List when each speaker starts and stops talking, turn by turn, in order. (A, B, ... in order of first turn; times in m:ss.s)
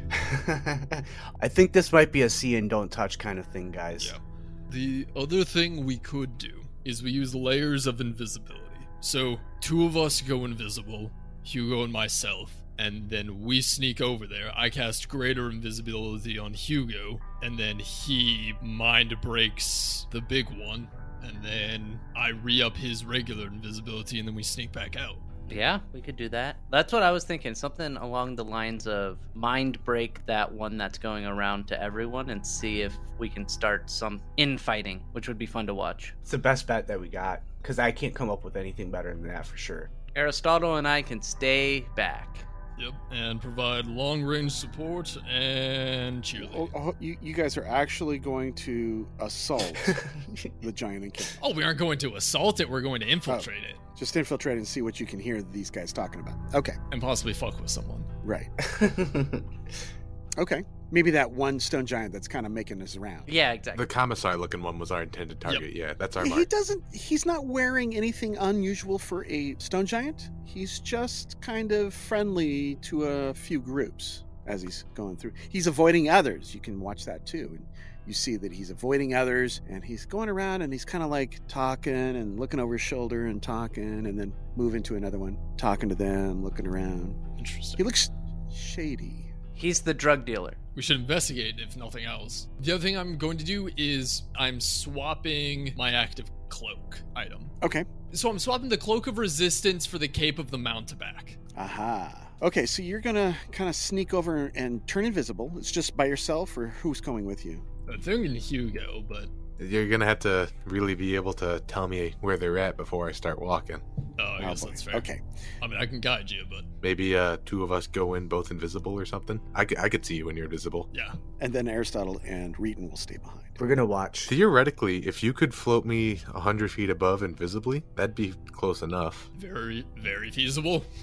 0:00.1-0:04.2 A
0:04.0-0:25.2 B
0:25.5-0:36.1 C
0:36.2-0:39.9 A
0:40.1-0:42.4 C
0:42.8-0:46.7 B
0:46.4-0:50.0 D
0:49.8-0:50.5 A
0:50.6-0:51.4 D
0:51.4-0:53.8 B
0:53.3-0:56.8 D
0:56.9-0:58.1 B
0:58.2-0:58.5 D
0:58.6-0:59.4 A
1:00.4-1:03.3 D
1:03.3-1:03.9 C
1:03.7-1:06.5 E
1:06.2-1:27.2 D
1:27.4-1:27.8 B
1:27.8-1:29.3 D
1:29.5-1:30.6 C
1:30.7-1:37.5 B
1:37.6-1:37.9 D
1:38.1-1:41.4 B
1:41.5-1:47.6 D
1:47.9-1:49.3 B
1:49.6-1:53.8 E
1:54.2-1:55.1 B
1:54.4-1:55.2 D
1:55.6-1:56.7 B
1:56.8-2:00.9 E
2:00.9-2:01.2 B
2:01.4-2:03.6 D
2:03.6-2:04.3 A
2:04.2-2:09.3 E
2:09.3-2:10.8 B